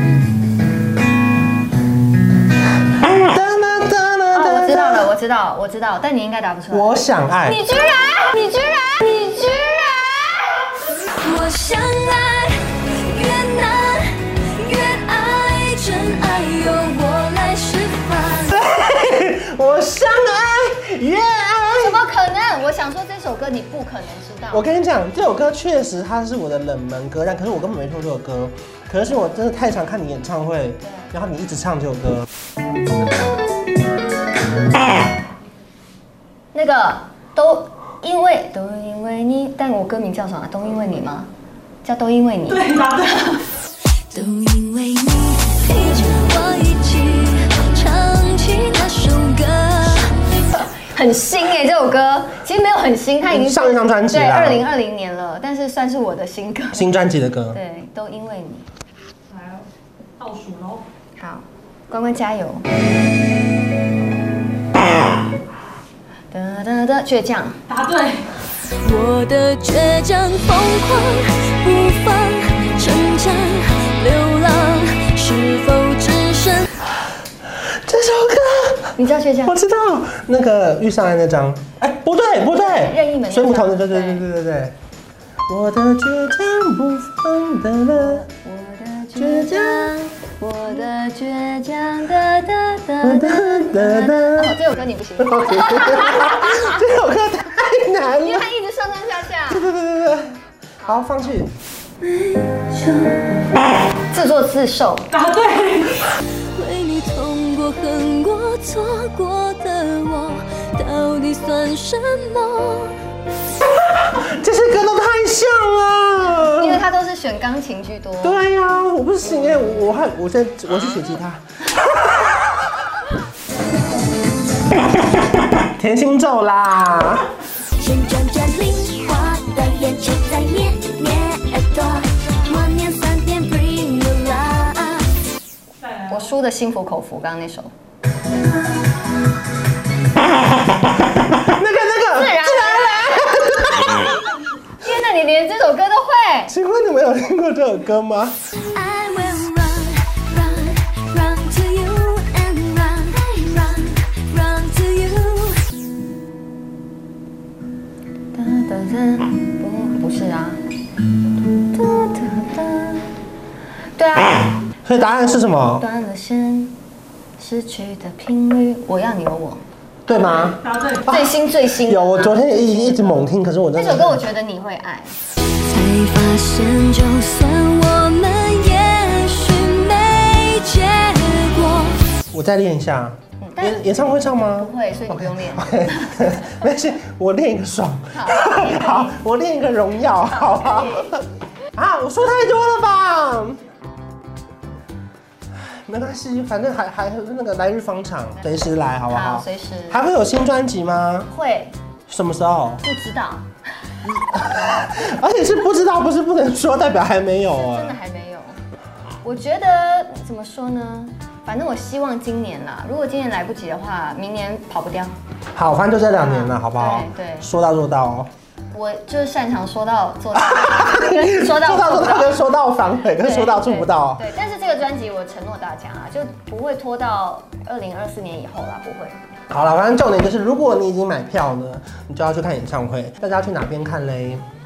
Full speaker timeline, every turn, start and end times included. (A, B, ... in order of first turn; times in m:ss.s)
0:02.9-0:05.1 A
0:04.3-0:10.7 B
0:06.7-0:07.6 A
0:11.1-0:18.6 C
0:18.5-0:22.0 A
0:21.8-0:24.7 B
0:24.5-0:32.3 A
0:30.8-0:31.1 B
0:36.5-0:41.3 B
0:41.8-0:42.9 B
0:42.5-0:43.4 D
0:44.1-0:50.2 C
0:50.5-0:56.9 B
0:53.3-0:54.6 A
0:56.7-0:57.6 A
0:57.5-0:58.7 B
0:59.3-0:59.7 D
1:00.2-1:00.8 D
1:01.2-1:02.6 B
1:06.3-1:07.6 B
1:07.7-1:08.4 D
1:08.8-1:16.7 C
1:17.6-1:24.8 A
1:19.0-1:19.6 B
1:22.5-1:24.3 B
1:25.5-1:28.2 A
1:28.0-1:36.8 B
1:29.2-1:29.9 A
1:33.0-1:34.6 A
1:35.2-1:38.5 A
1:38.2-1:39.7 B
1:39.5-1:41.5 A
1:40.8-1:41.2 B
1:42.0-1:43.3 B
1:44.1-1:45.1 B
1:45.1-1:46.1 D
1:46.6-1:53.0 C
1:53.8-1:56.8 A
1:56.4-1:58.4 B
1:58.2-2:02.4 A
1:59.4-1:59.8 B
2:05.5-2:07.3 A
2:07.8-2:15.1 C
2:15.8-2:16.3 D
2:16.1-2:17.7 B
2:21.2-2:24.1 A
2:22.1-2:24.0 B
2:24.8-2:26.5 B
2:26.5-2:28.4 A
2:28.7-2:35.6 C
2:38.3-2:40.6 B
2:41.6-2:43.1 B
2:44.0-2:44.6 B
2:44.9-2:45.8 A
2:45.2-2:46.8 B
2:47.4-2:49.6 B
2:50.1-2:54.2 A
2:50.1-2:51.1 D
2:51.1-2:55.2 B
2:55.7-3:02.0 C
3:02.3-3:13.6 A
3:03.4-3:06.6 B
3:08.1-3:09.2 B
3:10.3-3:11.1 B
3:15.6-3:21.3 A
3:18.4-3:20.0 B
3:21.3-3:21.7 B
3:22.1-3:22.8 A
3:22.8-3:23.4 B
3:24.3-3:28.0 A
3:27.7-3:28.6 B
3:29.2-3:35.2 B
3:35.6-3:38.3 A
3:36.1-3:37.5 B
3:38.7-3:42.4 B
3:40.4-3:44.2 A
3:43.2-3:49.2 B
3:49.5-3:54.4 A